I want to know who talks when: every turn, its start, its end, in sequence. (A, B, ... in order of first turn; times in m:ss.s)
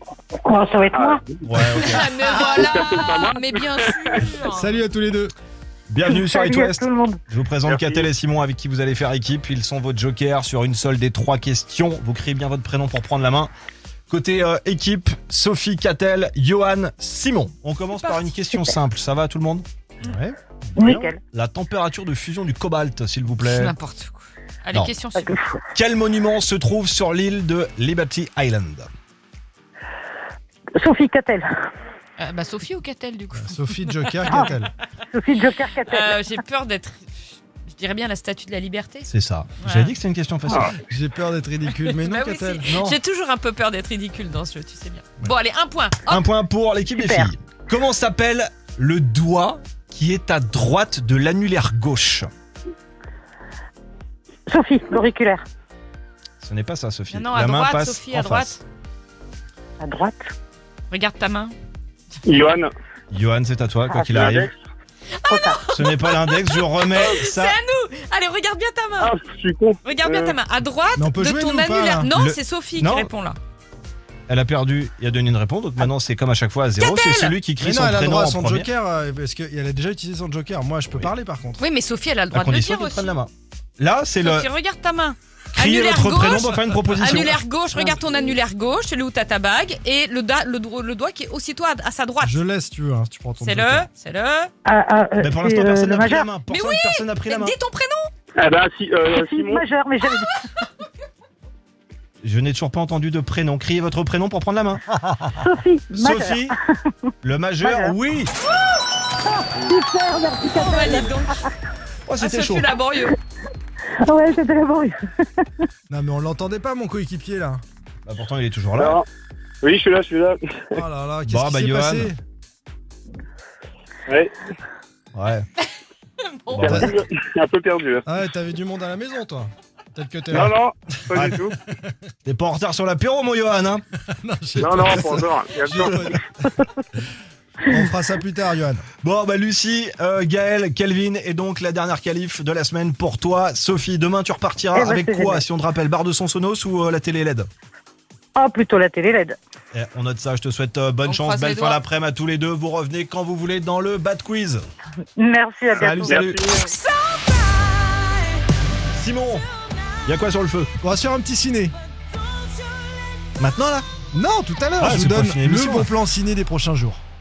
0:00.4-0:01.2 A
0:00.9-0:04.2 B
0:01.4-0:02.1 C
0:01.8-0:04.8 D
0:04.5-0:05.3 E
0:05.9-0:13.5 C
0:06.0-0:07.2 A
0:07.6-0:08.0 B
0:14.1-0:19.7 C
0:18.0-0:18.3 D
0:20.0-0:21.1 E
0:20.8-0:21.2 A
0:21.3-0:23.7 C
0:23.4-0:25.4 D
0:25.2-0:25.6 A
0:25.7-0:28.9 C
0:30.8-0:31.5 A
0:32.2-0:34.5 D
0:33.3-0:34.7 E
0:35.1-0:36.2 A
0:35.9-0:37.0 D
0:37.6-0:39.1 D
0:39.1-0:40.7 C
0:39.6-0:39.9 D
0:40.6-0:42.8 E
0:41.9-0:46.2 D
0:42.7-0:43.0 C
0:46.1-0:52.3 C
0:46.9-0:47.3 A
0:54.5-0:55.4 A
0:56.4-0:58.6 C
0:57.1-0:58.6 D
0:59.8-1:00.3 A
1:00.9-1:01.5 D
1:02.2-1:02.7 B
1:03.1-1:04.5 C
1:03.9-1:04.2 A
1:04.0-1:04.5 B
1:05.2-1:09.1 D
1:05.3-1:05.6 A
1:05.7-1:07.6 C
1:09.0-1:10.4 B
1:09.8-1:13.4 D
1:11.0-1:12.1 E
1:12.1-1:13.1 C
1:14.3-1:18.7 C
1:16.8-1:17.4 D
1:17.6-1:21.6 E
1:21.6-1:23.1 D
1:22.3-1:24.5 C
1:24.2-1:32.4 D
1:25.5-1:27.9 C
1:32.2-1:33.9 E
1:33.4-1:34.5 D
1:34.6-1:36.3 A
1:35.2-1:37.6 C
1:36.5-1:38.1 D
1:38.4-1:39.6 B
1:39.0-1:40.4 A
1:42.2-1:44.9 C
1:45.3-1:46.6 A
1:45.9-1:46.5 C
1:47.2-1:48.3 C
1:47.6-1:47.9 A
1:49.4-1:51.2 A
1:50.5-1:51.4 D
1:52.1-1:52.7 C
1:52.2-1:53.1 D
1:54.0-1:54.9 A
1:55.9-1:57.6 E
1:58.0-1:59.0 C
1:58.8-1:59.0 B
1:59.6-2:00.6 B
2:00.7-2:02.2 E
2:01.3-2:02.1 C
2:05.1-2:05.4 C
2:06.4-2:06.9 D
2:06.5-2:06.9 C
2:06.6-2:08.0 B
2:06.7-2:06.9 E
2:08.0-2:10.5 E
2:10.3-2:11.5 B
2:11.1-2:12.0 E
2:12.2-2:13.8 C
2:14.1-2:16.5 E
2:14.6-2:16.2 B
2:17.7-2:18.8 E
2:19.0-2:27.5 C
2:24.7-2:25.4 A
2:28.4-2:29.4 A
2:29.7-2:34.6 C
2:31.0-2:31.8 D
2:35.2-2:36.2 A
2:35.8-2:36.5 C
2:35.8-2:36.6 B
2:38.9-2:39.5 C
2:40.0-2:40.7 C
2:40.8-2:41.7 E
2:43.4-2:43.8 C
2:44.1-2:47.0 E
2:44.8-2:45.9 C